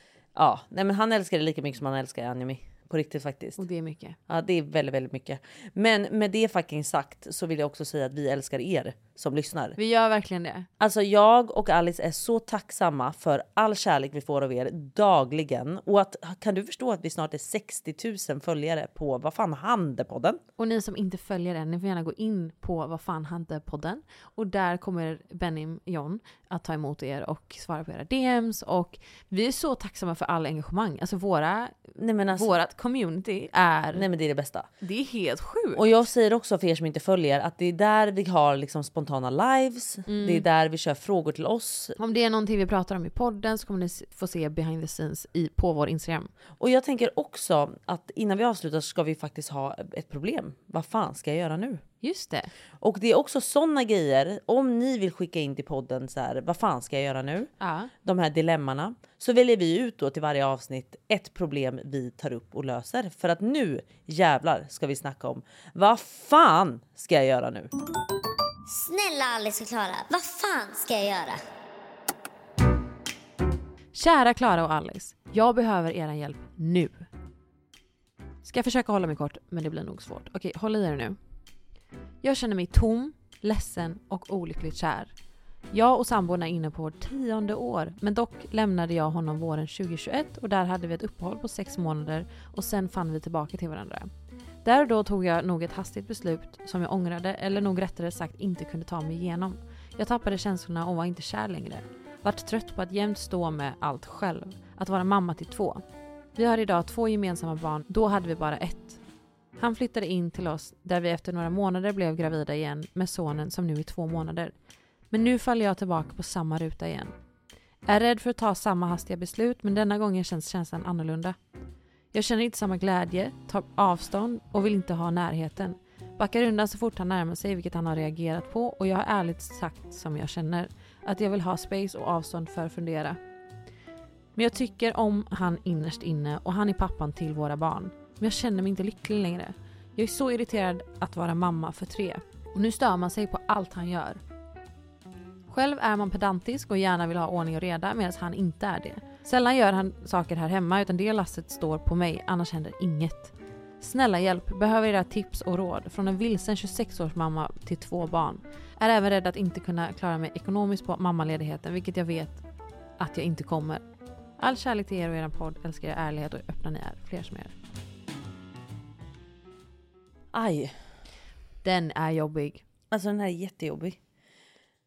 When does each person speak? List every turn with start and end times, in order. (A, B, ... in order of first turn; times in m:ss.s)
0:00.3-0:03.6 A
0:03.6-0:04.2 B
0:04.3-0:09.8 A
0:09.8-0:10.7 B
0:10.8-0:20.4 A
0:20.6-0:34.0 B
0:32.0-0:32.5 A
0:33.9-0:34.7 A
0:34.8-0:35.9 B
0:35.8-0:42.0 A
0:40.1-0:40.4 B
0:42.0-0:46.3 B
0:46.6-0:51.8 A
0:52.0-0:52.5 B
0:52.8-0:57.5 A
0:57.6-0:57.9 B
0:58.0-1:07.7 A
1:08.7-1:11.4 C
1:13.9-1:17.0 B
1:18.4-1:21.2 B
1:22.2-1:25.1 B
1:25.7-1:34.1 B
1:34.6-1:45.8 B
1:46.3-1:49.0 B
1:49.6-1:54.5 B
1:55.1-1:57.1 B
1:57.8-2:01.4 B
2:02.1-2:13.2 B
2:14.4-2:24.2 B
2:25.5-2:42.4 B
2:43.0-2:43.8 B
2:44.4-2:47.5 B
2:50.3-2:50.7 A
2:51.6-2:52.6 B
2:52.9-2:54.0 A